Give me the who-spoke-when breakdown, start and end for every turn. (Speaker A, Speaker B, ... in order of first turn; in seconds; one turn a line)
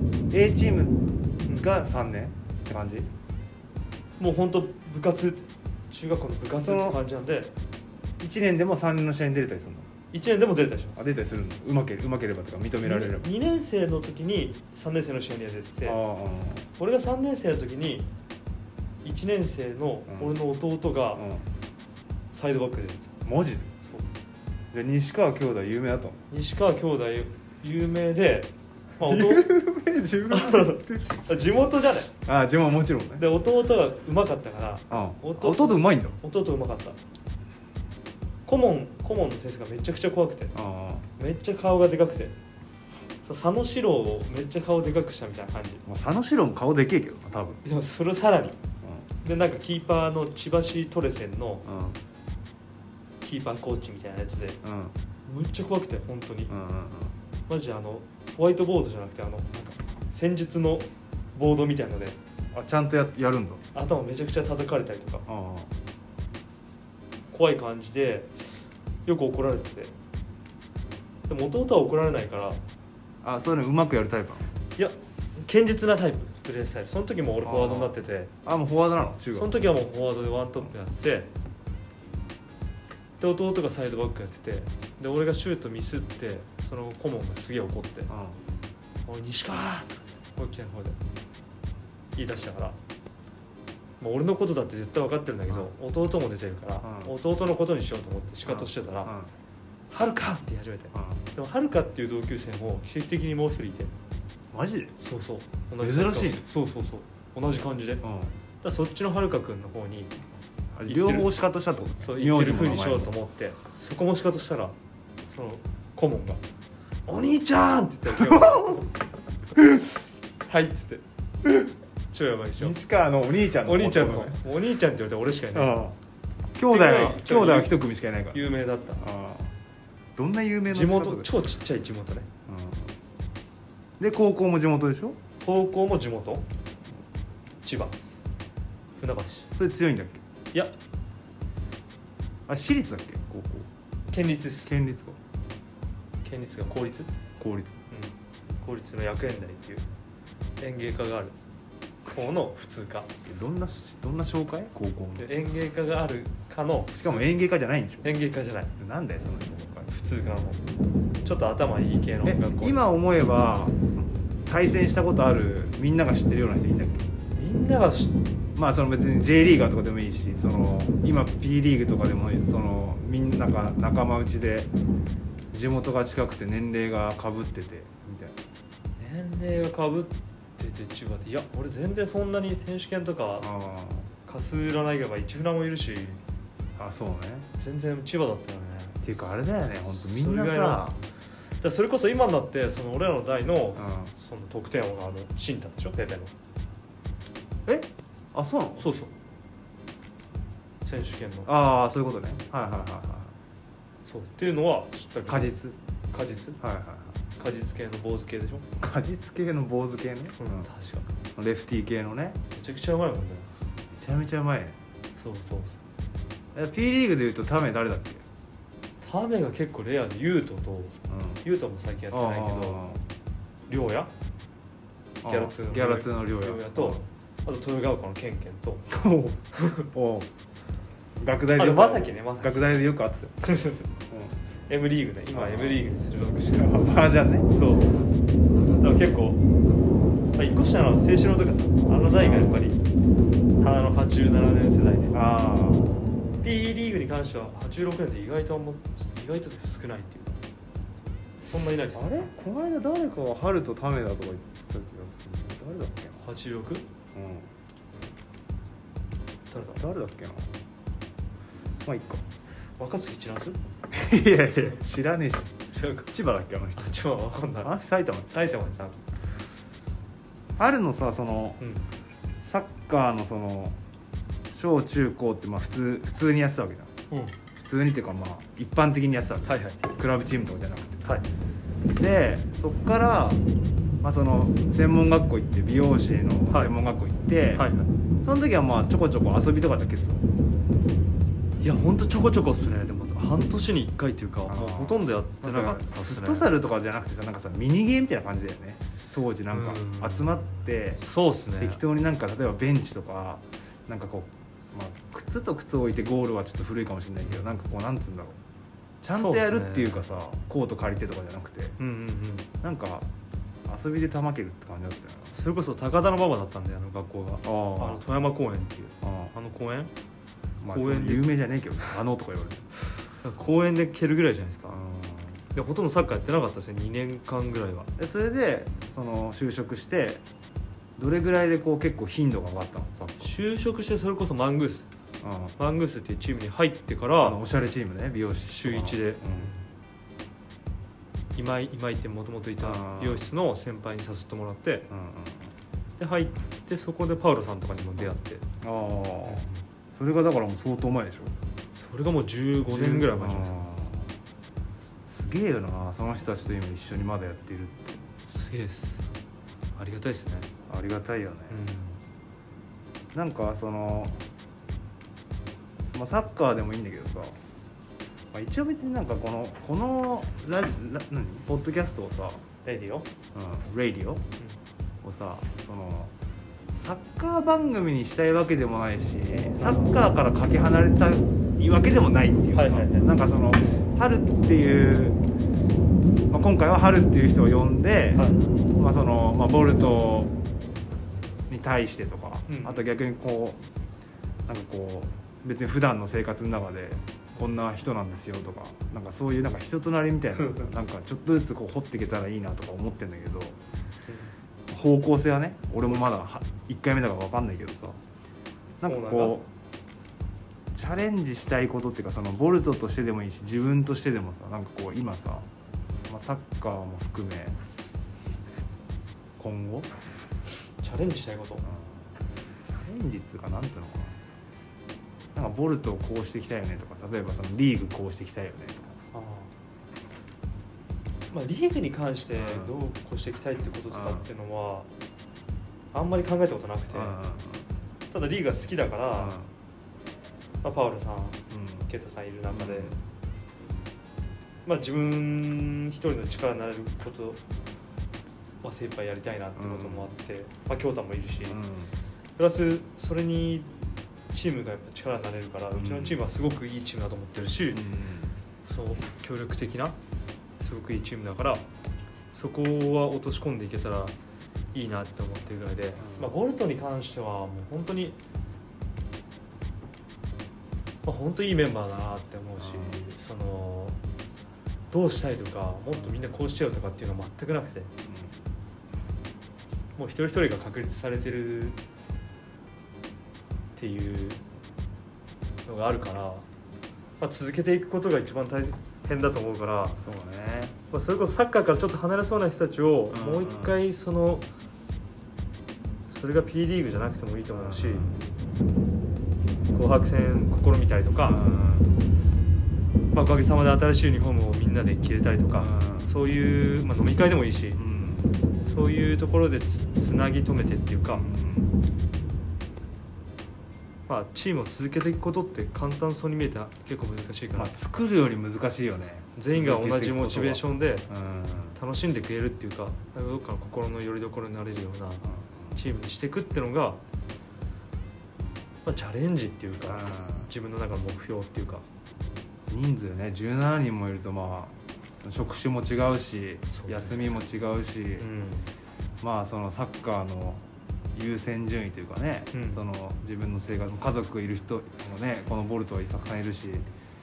Speaker A: 0.3-3.1
Speaker B: 1.4-1.7
Speaker B: 4.2-7.5
Speaker A: 6.6-7.0
Speaker A: 8.2-9.9
Speaker B: 10.1-11.1
Speaker A: 11.0-13.3
Speaker B: 12.8-16.0
Speaker A: 15.8-16.6
Speaker B: 16.8-18.1
Speaker B: 19.0-21.2
Speaker A: 20.1-20.4
Speaker A: 21.1-21.4
Speaker B: 22.3-23.1
Speaker A: 23.2-23.7
Speaker A: 24.7-26.2
Speaker B: 26.3-29.5
Speaker A: 29.0-31.2
Speaker B: 30.3-32.1
Speaker A: 32.2-33.2
Speaker B: 33.2-37.0
Speaker A: 34.9-36.2
Speaker B: 38.5-40.5
Speaker A: 40.5-41.0
Speaker B: 41.2-42.3
Speaker B: 43.2-45.8
Speaker A: 45.8-47.6
Speaker B: 47.6-48.6
Speaker B: 49.2-51.6
Speaker A: 51.6-52.0
Speaker B: 53.2-54.6
Speaker A: 54.6-54.9
Speaker B: 55.2-56.5
Speaker A: 56.5-57.1
Speaker B: 57.5-62.2
Speaker A: 62.5-63.6
Speaker B: 63.7-65.2
Speaker A: 65.2-65.7
Speaker B: 67.3-68.5
Speaker B: 69.0-69.9
Speaker B: 71.3-72.6
Speaker A: 73.2-74.5
Speaker B: 74.8-78.3
Speaker A: 77.4-79.7
Speaker B: 79.3-81.3
Speaker B: 83.2-88.1
Speaker A: 88.1-88.4
Speaker B: 89.0-91.0
Speaker B: 92.2-92.8
Speaker B: 94.0-99.1
Speaker A: 96.8-97.1
Speaker A: 98.5-99.3
Speaker B: 99.9-103.9
Speaker A: 100.9-101.2
Speaker A: 104.5-105.0
Speaker B: 105.0-108.0
Speaker A: 105.8-106.4
Speaker A: 108.0-108.3
Speaker B: 108.6-110.1
Speaker A: 110.7-113.1
Speaker B: 110.8-111.3
Speaker B: 112.0-114.7
Speaker B: 115.3-116.4
Speaker B: 117.1-118.9
Speaker A: 118.1-118.8
Speaker B: 120.5-121.0
Speaker B: 122.1-122.8
Speaker A: 122.6-124.4
Speaker B: 123.6-125.8
Speaker A: 125.5-126.0
Speaker A: 126.5-128.4
Speaker B: 126.7-127.7
Speaker B: 128.3-129.0
Speaker A: 129.0-129.5
Speaker A: 130.2-131.3
Speaker B: 130.7-132.3
Speaker A: 132.5-132.9
Speaker A: 134.0-135.2
Speaker B: 135.4-136.4
Speaker B: 137.6-137.9
Speaker B: 139.0-139.5
Speaker A: 139.6-140.2
Speaker A: 142.5-143.7
Speaker B: 144.1-144.8
Speaker A: 144.7-145.2
Speaker B: 146.2-147.1
Speaker A: 147.4-147.8
Speaker B: 147.9-149.8
Speaker B: 150.6-151.3
Speaker B: 152.1-153.1
Speaker A: 153.2-155.3
Speaker B: 155.2-157.3
Speaker A: 156.9-158.1
Speaker B: 158.0-158.7
Speaker A: 158.8-159.9
Speaker B: 159.9-160.6
Speaker B: 161.2-162.8
Speaker A: 162.2-167.1
Speaker B: 167.3-168.2
Speaker A: 168.6-174.7
Speaker A: 175.5-178.4
Speaker B: 179.0-183.5
Speaker A: 183.4-184.1
Speaker B: 184.2-186.2
Speaker A: 186.8-187.5
Speaker B: 187.6-189.0
Speaker A: 189.0-191.0
Speaker B: 190.1-190.8
Speaker B: 191.6-196.3
Speaker A: 193.8-194.1
Speaker A: 197.7-198.9
Speaker B: 198.8-199.1
Speaker B: 200.8-201.5
Speaker A: 201.4-203.3
Speaker B: 204.1-205.6
Speaker A: 205.3-205.8
Speaker B: 206.1-206.6
Speaker A: 206.6-207.2
Speaker B: 207.4-208.7
Speaker A: 208.8-210.7
Speaker B: 210.4-211.1
Speaker A: 211.3-212.4
Speaker B: 212.5-213.5
Speaker A: 213.9-214.8
Speaker B: 215.1-215.8
Speaker A: 216.5-218.2
Speaker B: 219.0-222.9
Speaker A: 221.1-221.4
Speaker A: 222.1-223.0
Speaker B: 223.7-224.1
Speaker A: 225.2-227.0
Speaker B: 225.2-228.9
Speaker A: 228.9-230.3
Speaker B: 229.5-229.9
Speaker A: 231.2-233.3
Speaker B: 231.6-232.7
Speaker B: 233.4-233.9
Speaker A: 234.1-234.4
Speaker B: 234.7-236.9
Speaker A: 235.3-235.9
Speaker A: 236.4-237.5
Speaker B: 237.5-238.0
Speaker B: 238.7-239.4
Speaker B: 240.3-242.8
Speaker A: 242.1-242.7
Speaker B: 243.6-245.2
Speaker A: 245.1-245.9
Speaker B: 246.4-250.4
Speaker B: 251.4-252.3
Speaker A: 251.9-256.2
Speaker B: 256.2-256.9
Speaker A: 257.1-257.5
Speaker B: 259.5-259.8
Speaker A: 259.8-260.5
Speaker A: 261.8-262.2
Speaker B: 262.8-263.6
Speaker A: 263.9-267.0
Speaker B: 265.7-266.1
Speaker B: 266.8-267.7
Speaker A: 267.6-268.3
Speaker B: 268.3-269.0
Speaker A: 270.6-271.6
Speaker B: 271.6-271.8
Speaker A: 272.4-273.8
Speaker A: 274.5-276.9
Speaker B: 277.1-277.4
Speaker A: 277.5-281.2
Speaker B: 279.5-279.8
Speaker A: 281.9-283.4
Speaker A: 284.0-287.6
Speaker B: 286.5-286.7
Speaker B: 287.5-287.9
Speaker A: 288.2-290.2
Speaker B: 291.6-296.5
Speaker A: 294.5-301.0
Speaker B: 299.5-301.8
Speaker A: 301.6-308.4
Speaker B: 307.2-307.5
Speaker A: 309.0-311.8
Speaker B: 309.1-310.0
Speaker B: 311.8-312.5
Speaker A: 312.6-313.1
Speaker A: 313.6-315.3
Speaker B: 315.3-319.9
Speaker A: 317.4-318.0
Speaker A: 319.0-319.3
Speaker A: 320.6-322.6
Speaker B: 320.7-321.3
Speaker B: 322.9-324.8
Speaker A: 324.7-325.4
Speaker B: 325.5-327.9
Speaker A: 328.0-330.2
Speaker A: 331.0-333.3
Speaker B: 333.2-334.9
Speaker A: 335.2-335.5
Speaker B: 335.6-337.4
Speaker A: 337.2-339.5
Speaker B: 338.5-339.6
Speaker B: 341.4-344.9
Speaker A: 342.6-343.2
Speaker A: 344.9-345.5
Speaker B: 346.0-348.4
Speaker A: 348.6-351.3
Speaker B: 349.2-349.6
Speaker B: 351.8-353.6
Speaker A: 352.6-354.1
Speaker A: 355.1-358.0
Speaker B: 358.3-359.1
Speaker B: 359.8-360.5
Speaker A: 360.7-361.6
Speaker B: 361.5-362.0
Speaker A: 363.1-364.2
Speaker A: 365.9-367.4
Speaker A: 368.3-372.4
Speaker B: 372.6-373.1
Speaker A: 373.3-374.2
Speaker A: 375.0-376.1
Speaker A: 376.8-385.2
Speaker B: 379.6-379.9
Speaker B: 382.5-383.1
Speaker A: 386.3-390.3
Speaker B: 388.1-388.4
Speaker A: 391.5-393.6
Speaker B: 392.5-392.8
Speaker A: 394.5-403.6
Speaker B: 400.4-400.7
Speaker A: 404.7-408.0
Speaker B: 405.9-406.1
Speaker A: 408.8-409.5
Speaker B: 408.8-409.4
Speaker A: 410.7-415.5
Speaker A: 416.1-417.6
Speaker A: 419.4-419.9
Speaker B: 420.8-421.6
Speaker A: 421.6-422.1
Speaker A: 422.6-424.2
Speaker A: 425.3-428.9
Speaker B: 429.1-429.5
Speaker B: 431.3-434.9
Speaker A: 432.3-432.7
Speaker A: 433.9-434.3
Speaker B: 435.9-437.2
Speaker A: 436.9-437.6
Speaker B: 438.1-439.4
Speaker A: 439.1-439.5
Speaker B: 440.6-442.9
Speaker A: 441.5-441.9
Speaker A: 442.5-443.0
Speaker B: 444.6-447.4
Speaker B: 448.6-451.6
Speaker A: 449.6-450.1
Speaker A: 451.5-451.9
Speaker B: 452.4-453.7
Speaker B: 454.3-457.8
Speaker A: 455.7-456.2
Speaker A: 457.7-458.3
Speaker B: 458.6-460.0
Speaker B: 460.6-461.6
Speaker B: 462.3-464.1
Speaker B: 464.7-468.2
Speaker A: 466.0-466.3
Speaker B: 471.0-474.0
Speaker A: 472.6-473.0
Speaker B: 474.9-477.9
Speaker A: 475.9-476.2
Speaker A: 478.0-478.3
Speaker B: 480.0-481.8
Speaker B: 483.8-484.4
Speaker B: 485.6-486.4
Speaker B: 487.2-490.0
Speaker A: 490.0-490.8
Speaker B: 490.9-494.5
Speaker A: 493.1-493.8
Speaker B: 496.1-498.1
Speaker A: 497.5-498.2
Speaker B: 499.7-501.4
Speaker A: 501.2-501.9
Speaker B: 503.1-507.8
Speaker A: 505.6-506.1
Speaker A: 507.7-508.3
Speaker B: 508.6-511.2
Speaker A: 511.1-511.7
Speaker B: 514.1-517.7
Speaker A: 517.5-521.8
Speaker B: 519.4-521.1
Speaker B: 521.7-527.0
Speaker A: 525.2-525.8
Speaker B: 528.8-531.9
Speaker A: 529.9-530.5
Speaker A: 532.7-538.3
Speaker B: 536.7-537.3
Speaker B: 538.2-538.7
Speaker A: 539.2-546.9
Speaker B: 542.5-542.8